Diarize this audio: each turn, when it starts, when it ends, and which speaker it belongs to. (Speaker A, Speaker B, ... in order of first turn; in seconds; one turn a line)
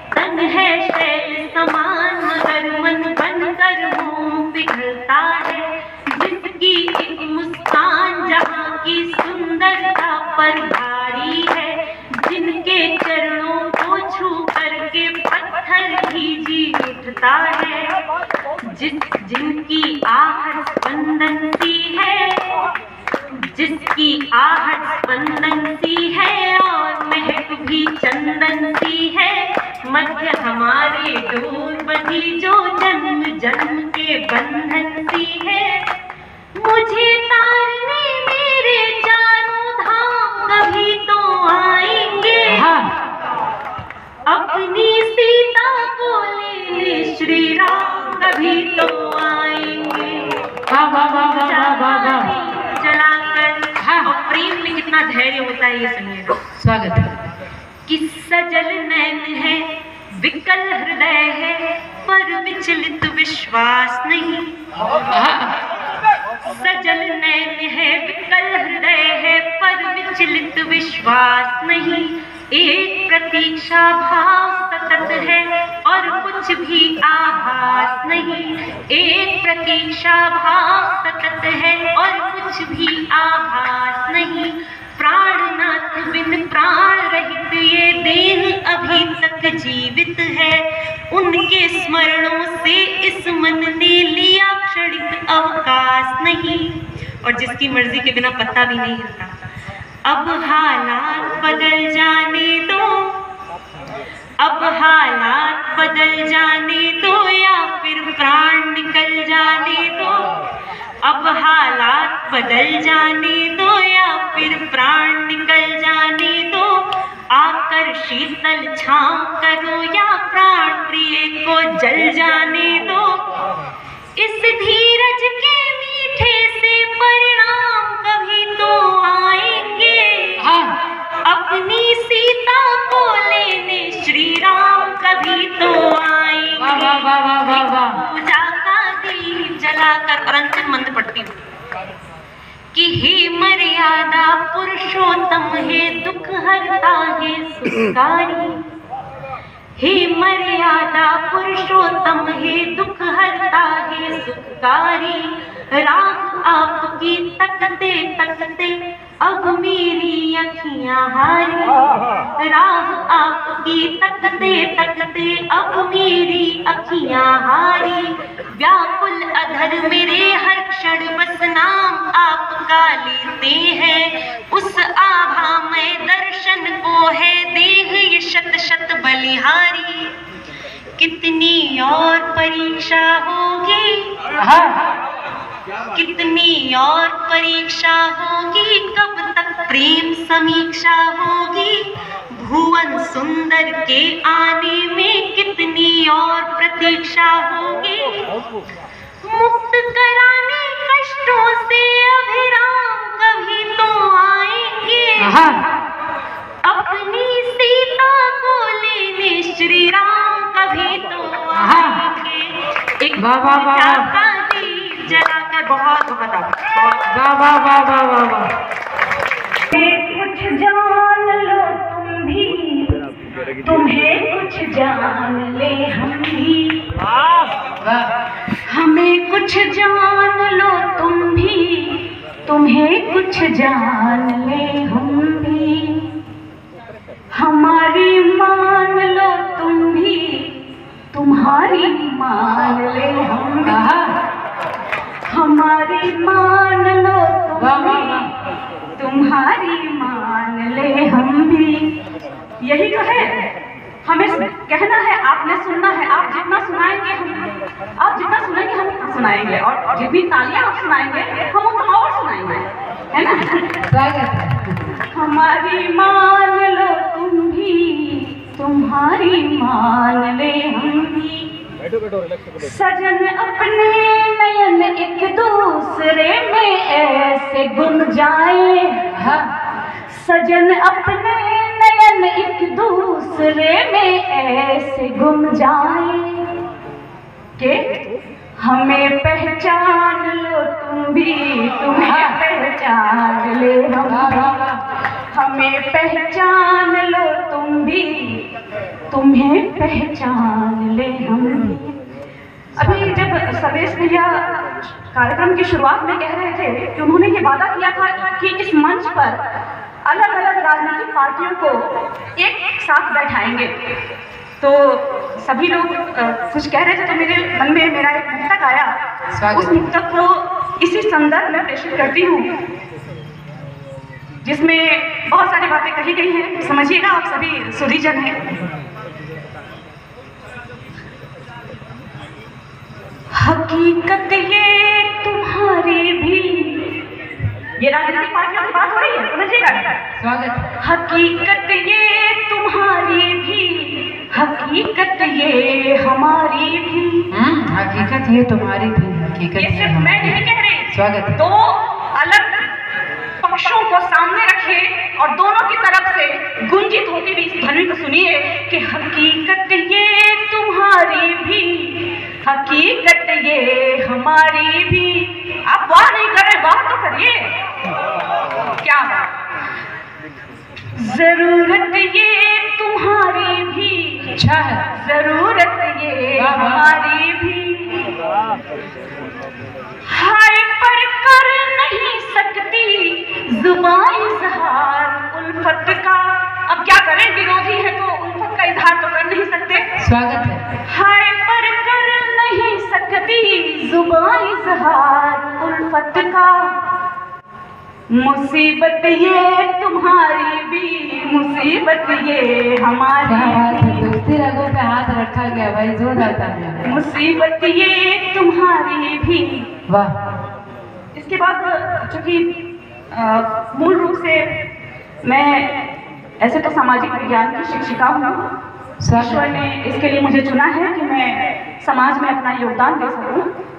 Speaker A: 0.1-17.9
Speaker A: 18.7-22.4
Speaker A: 23.5-35.7
Speaker A: 36.6-42.7
Speaker B: 42.5-42.9
Speaker A: 44.3-50.2
Speaker B: 50.7-52.3
Speaker A: 51.0-56.3
Speaker B: 53.8-54.1
Speaker B: 56.6-57.1
Speaker A: 57.9-59.6
Speaker A: 60.2-64.5
Speaker B: 65.1-65.5
Speaker A: 66.5-96.7
Speaker A: 97.2-99.3
Speaker A: 100.1-102.8
Speaker A: 104.4-110.2
Speaker A: 111.0-116.7
Speaker A: 117.3-123.0
Speaker A: 124.2-130.4
Speaker B: 130.4-130.7
Speaker A: 131.2-141.3
Speaker B: 136.6-138.0
Speaker A: 142.7-148.6
Speaker A: 149.8-161.7
Speaker A: 162.4-180.1
Speaker A: 181.0-184.0
Speaker B: 184.4-184.8
Speaker A: 185.9-191.8
Speaker A: 192.3-198.2
Speaker A: 199.2-205.4
Speaker B: 205.2-205.6
Speaker A: 206.6-212.5
Speaker B: 211.5-212.0
Speaker A: 213.0-217.1
Speaker B: 213.2-214.1
Speaker B: 217.1-218.5
Speaker C: 219.7-223.0
Speaker C: 223.6-226.8
Speaker B: 227.8-228.1
Speaker C: 228.7-236.1
Speaker C: 237.3-240.5
Speaker C: 241.1-243.8
Speaker B: 243.7-244.1
Speaker C: 245.2-248.3
Speaker B: 247.5-248.3
Speaker C: 248.9-251.9
Speaker C: 252.6-253.3
Speaker C: 254.0-257.5
Speaker C: 258.0-263.6
Speaker B: 263.9-264.7
Speaker C: 265.1-271.5
Speaker C: 272.6-279.0
Speaker B: 279.1-279.4
Speaker C: 280.1-286.5
Speaker C: 288.6-294.6
Speaker B: 291.9-292.4
Speaker B: 294.0-294.8
Speaker C: 295.3-298.4
Speaker C: 299.1-301.9
Speaker B: 302.8-303.3
Speaker C: 302.8-304.4
Speaker C: 305.1-309.4
Speaker C: 310.0-313.7
Speaker C: 314.6-318.9
Speaker B: 319.3-319.8
Speaker C: 319.5-322.5
Speaker C: 324.4-328.4
Speaker C: 333.3-336.9
Speaker C: 337.8-339.9
Speaker B: 340.2-340.7
Speaker C: 340.8-347.3
Speaker B: 347.3-351.4
Speaker C: 349.6-352.6
Speaker C: 353.4-367.5
Speaker C: 368.8-369.3
Speaker C: 371.0-374.3
Speaker B: 374.3-374.8
Speaker C: 374.9-378.1
Speaker B: 376.3-376.9
Speaker C: 380.1-389.8
Speaker B: 390.0-390.6
Speaker C: 390.9-396.7
Speaker C: 398.1-404.1
Speaker B: 403.2-406.9
Speaker C: 406.8-409.7
Speaker B: 409.9-410.1
Speaker C: 411.1-412.5
Speaker C: 413.1-414.4
Speaker C: 415.2-415.7
Speaker C: 416.4-418.4
Speaker B: 419.0-419.6
Speaker C: 419.1-423.4